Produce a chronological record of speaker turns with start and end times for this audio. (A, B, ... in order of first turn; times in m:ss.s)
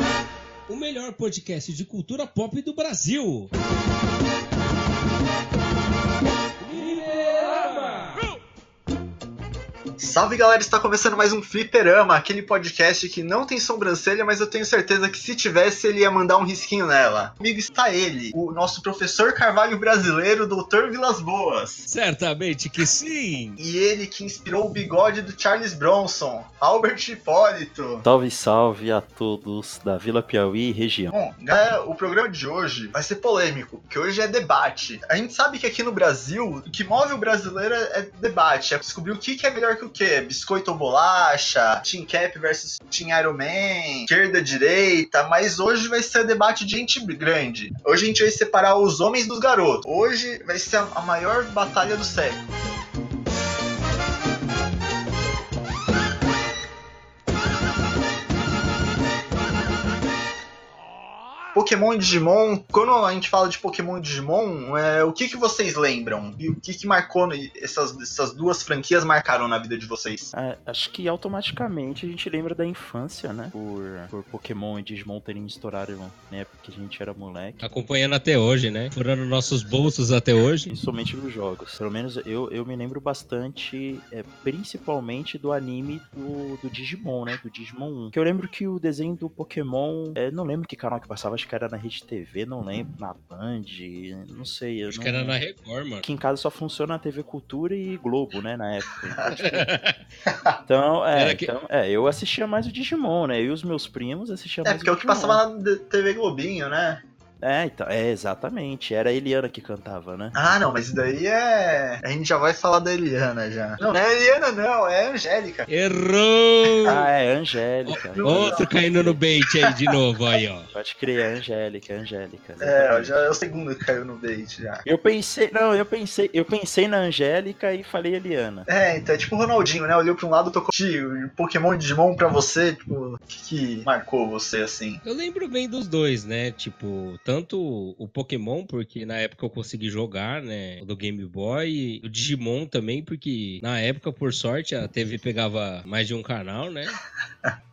0:00.7-0:03.5 A
0:06.6-0:08.2 A
0:10.0-0:21.9 B
0:21.8-0:23.6 A
0:23.6-0:28.0 B
0:28.0-0:31.1 C
0:31.1-0:52.5 B
1:01.5-1:10.3 B
1:10.3-1:17.6 C
1:17.6-1:20.7 A
1:20.7-1:35.4 C
1:34.9-1:36.0 A
1:36.0-1:39.7 C
1:39.3-1:40.0 A
1:40.3-1:40.6 B
1:40.6-1:45.4 C
1:41.1-1:41.5 A
1:44.6-1:47.0 B
1:47.4-1:50.5 C
1:50.3-1:55.7 B
1:55.7-1:57.0 A
1:56.9-1:59.2 C
1:57.9-2:00.7 A
1:58.2-1:58.8 B
2:00.7-2:03.1 C
2:02.6-2:04.8 B
2:04.8-2:08.7 C
2:08.7-2:15.0 B
2:15.0-2:27.0 A